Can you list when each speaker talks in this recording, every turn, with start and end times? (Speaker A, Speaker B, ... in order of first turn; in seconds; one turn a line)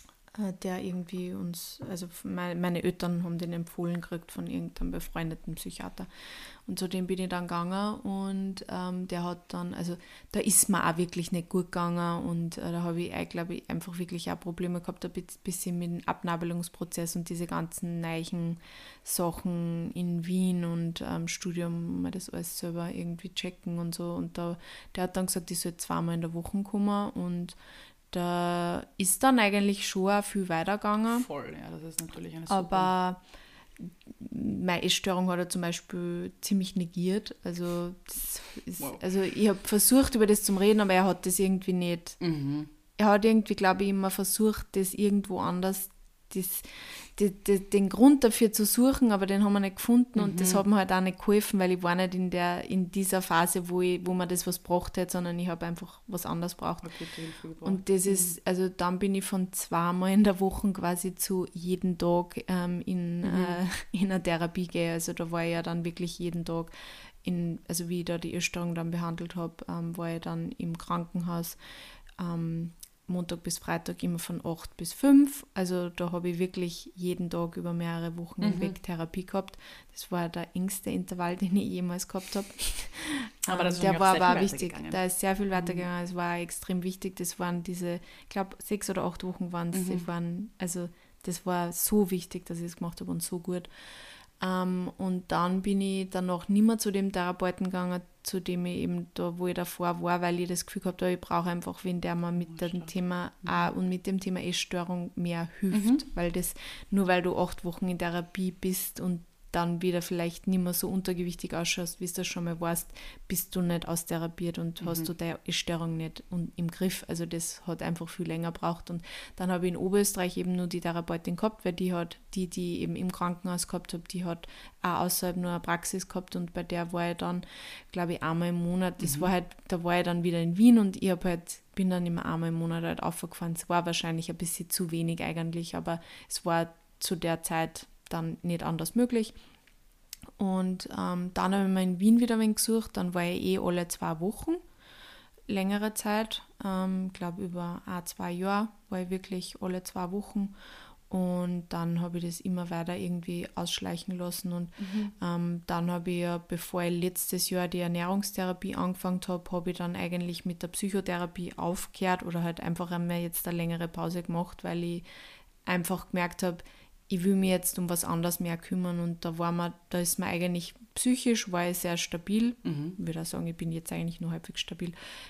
Speaker A: 0.3-6.1
Speaker A: 6.7-27.6
Speaker A: 28.1-31.3
Speaker B: 31.1-32.9
Speaker A: 32.5-33.2
Speaker A: 33.8-42.2
Speaker B: 42.2-42.7
Speaker A: 43.0-56.9
Speaker B: 50.1-50.6
Speaker B: 56.8-58.3
Speaker A: 57.6-66.7
Speaker B: 63.2-63.6
Speaker A: 67.2-71.6
Speaker A: 72.2-93.7
Speaker B: 78.4-78.7
Speaker B: 83.5-85.0
Speaker B: 85.5-85.8
Speaker B: 89.7-90.0
Speaker A: 94.4-139.3
Speaker B: 102.4-102.9
Speaker B: 105.7-106.0
Speaker B: 114.8-115.1
Speaker B: 129.0-129.3
Speaker A: 140.4-144.6
Speaker A: 145.5-150.5
Speaker A: 151.1-165.0
Speaker B: 154.8-155.1
Speaker A: 165.6-174.9
Speaker B: 172.6-173.0